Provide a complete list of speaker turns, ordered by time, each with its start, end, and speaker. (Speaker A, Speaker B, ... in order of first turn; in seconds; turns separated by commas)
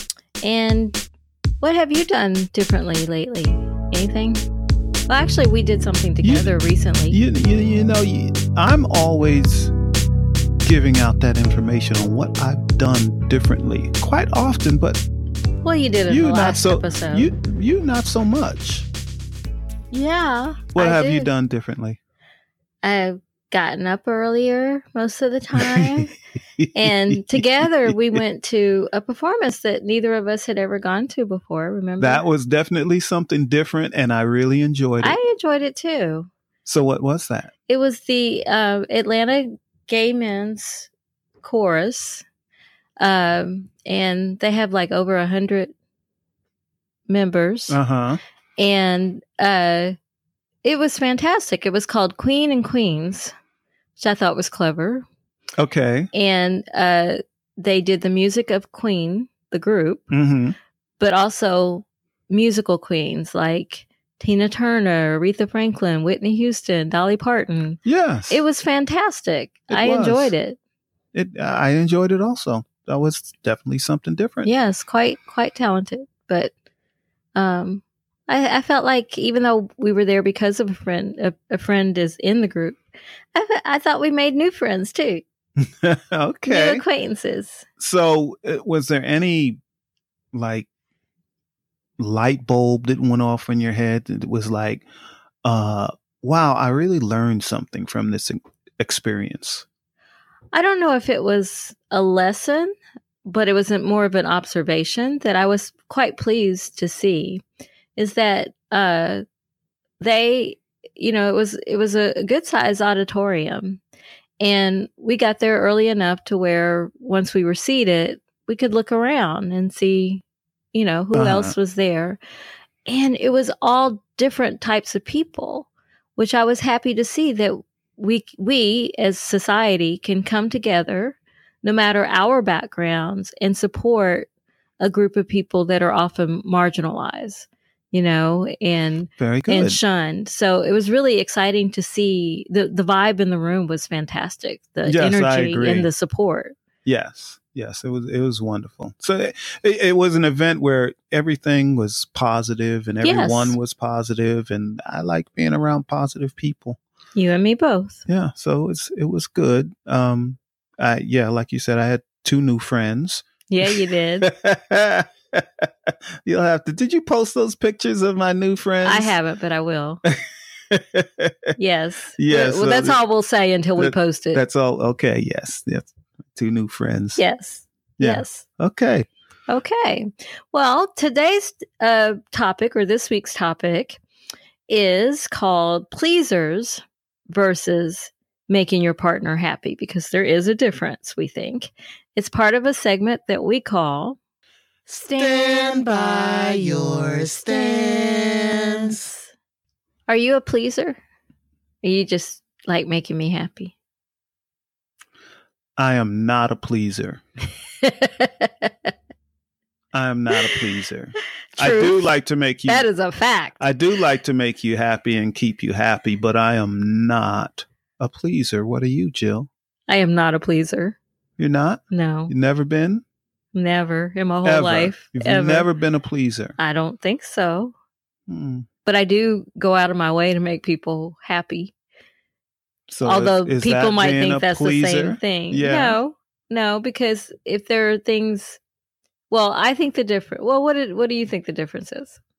Speaker A: 0.4-1.0, Speaker A: 1.6-4.5, Speaker A: 5.1-7.2, Speaker B: 6.2-6.5, Speaker B: 7.1-9.7, Speaker B: 10.6-15.0, Speaker A: 15.6-17.3, Speaker B: 16.1-18.9, Speaker A: 19.9-21.3, Speaker B: 20.7-22.0, Speaker A: 22.8-26.1, Speaker B: 25.6-25.9, Speaker B: 26.6-28.2, Speaker A: 26.7-32.2, Speaker B: 32.0-35.2, Speaker A: 35.0-36.3, Speaker B: 36.6-37.5, Speaker A: 37.7-40.9, Speaker A: 41.4-42.2, Speaker A: 43.0-45.7, Speaker A: 47.1-47.8, Speaker B: 47.7-48.2, Speaker A: 48.6-50.0, Speaker A: 50.6-53.3, Speaker A: 54.0-55.0, Speaker B: 55.6-56.1, Speaker A: 56.1-60.1, Speaker B: 60.1-60.6, Speaker A: 61.0-70.6, Speaker B: 67.8-68.4, Speaker B: 69.7-70.3, Speaker B: 71.1-74.5, Speaker A: 74.5-76.5, Speaker A: 77.3-82.8, Speaker A: 83.3-85.2, Speaker B: 85.6-86.8, Speaker A: 86.5-87.7, Speaker B: 87.8-89.6, Speaker B: 90.3-90.7, Speaker B: 92.0-94.9, Speaker B: 95.4-99.7, Speaker A: 100.5-102.7, Speaker A: 103.2-107.4, Speaker A: 108.0-109.2, Speaker A: 110.0-113.8, Speaker A: 114.4-122.2, Speaker B: 121.1-121.5, Speaker A: 122.9-134.3, Speaker A: 134.8-146.6, Speaker B: 139.2-139.8, Speaker B: 144.9-145.9, Speaker B: 146.8-156.8, Speaker A: 153.0-153.6, Speaker A: 157.2-158.0, Speaker B: 158.1-169.2, Speaker A: 163.5-164.3, Speaker A: 168.8-170.0, Speaker B: 170.1-171.3, Speaker A: 171.6-174.4, Speaker B: 172.2-173.0, Speaker B: 173.8-177.2, Speaker A: 177.2-178.4, Speaker B: 178.0-179.1, Speaker A: 179.5-184.0, Speaker A: 184.7-194.2, Speaker B: 194.9-199.0, Speaker A: 194.9-199.2, Speaker A: 200.1-201.0, Speaker A: 201.8-203.7, Speaker B: 205.8-207.2, Speaker A: 207.8-208.9, Speaker B: 209.9-212.9, Speaker A: 211.6-212.1, Speaker A: 212.7-213.6, Speaker B: 213.6-219.5, Speaker A: 219.9-221.0, Speaker B: 221.4-223.0, Speaker A: 221.9-222.3, Speaker A: 223.5-225.7, Speaker B: 224.4-226.6, Speaker A: 226.6-227.7, Speaker B: 228.3-228.7, Speaker A: 228.8-231.7, Speaker B: 232.9-236.0, Speaker A: 233.0-238.6, Speaker A: 239.3-242.2